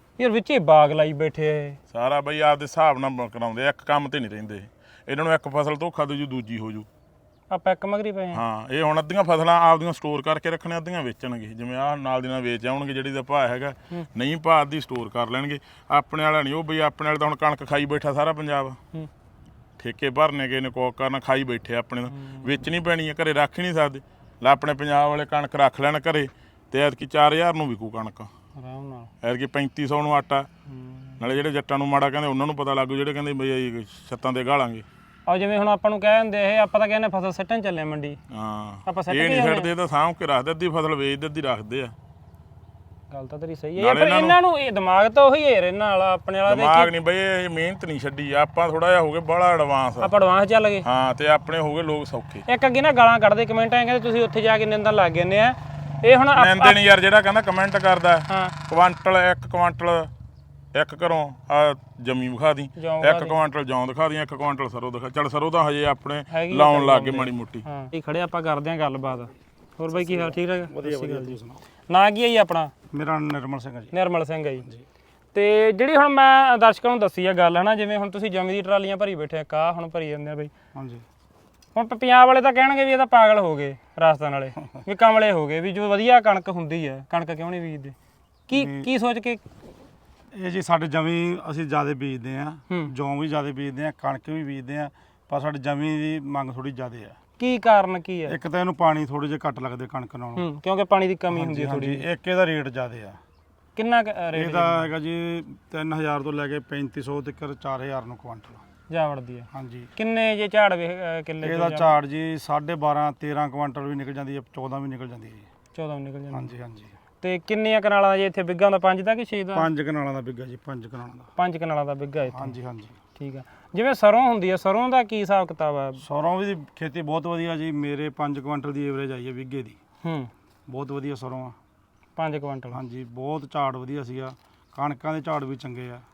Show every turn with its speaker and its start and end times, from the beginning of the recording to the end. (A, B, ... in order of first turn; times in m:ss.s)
0:00.2-0:01.8 A
0:01.9-0:06.9 B
0:07.5-0:08.4 A
0:08.3-0:18.8 B
0:19.8-0:28.3 B
0:22.1-0:22.5 A
0:28.6-0:29.1 A
0:29.2-0:30.5 B
0:30.8-0:31.2 A
0:31.2-0:34.8 B
0:35.3-0:38.2 A
0:38.3-0:41.9 B
0:38.8-0:39.7 A
0:43.1-0:46.9 A
0:43.8-0:44.4 B
0:46.5-0:50.1 B
0:50.0-0:50.8 A
0:50.8-0:52.4 B
0:52.5-0:56.8 A
0:56.3-1:00.1 B
0:58.3-0:58.5 A
1:00.7-1:07.6 B
1:02.8-1:03.4 A
1:06.3-1:11.4 A
1:09.9-1:11.6 C
1:11.9-1:12.7 A
1:12.9-1:13.9 C
1:13.9-1:14.6 A
1:15.3-1:20.5 A
1:20.7-1:21.0 C
1:21.7-1:27.9 A
1:28.5-1:29.4 A
1:28.5-1:28.9 C
1:30.3-1:37.2 C
1:37.4-1:38.4 A
1:38.3-1:40.5 C
1:40.4-1:42.0 A
1:41.3-1:43.2 C
1:43.7-1:44.8 A
1:44.3-1:48.6 C
1:48.9-1:51.9 A
1:49.5-1:49.9 C
1:51.4-1:55.5 C
1:55.7-1:56.5 A
1:56.3-1:56.9 C
1:57.2-1:59.7 A
1:59.5-2:01.3 C
2:01.4-2:02.5 A
2:02.3-2:03.0 C
2:03.2-2:06.0 A
2:06.0-2:09.8 C
2:10.0-2:10.3 A
2:10.7-2:11.5 C
2:12.2-2:12.8 A
2:12.7-2:16.0 C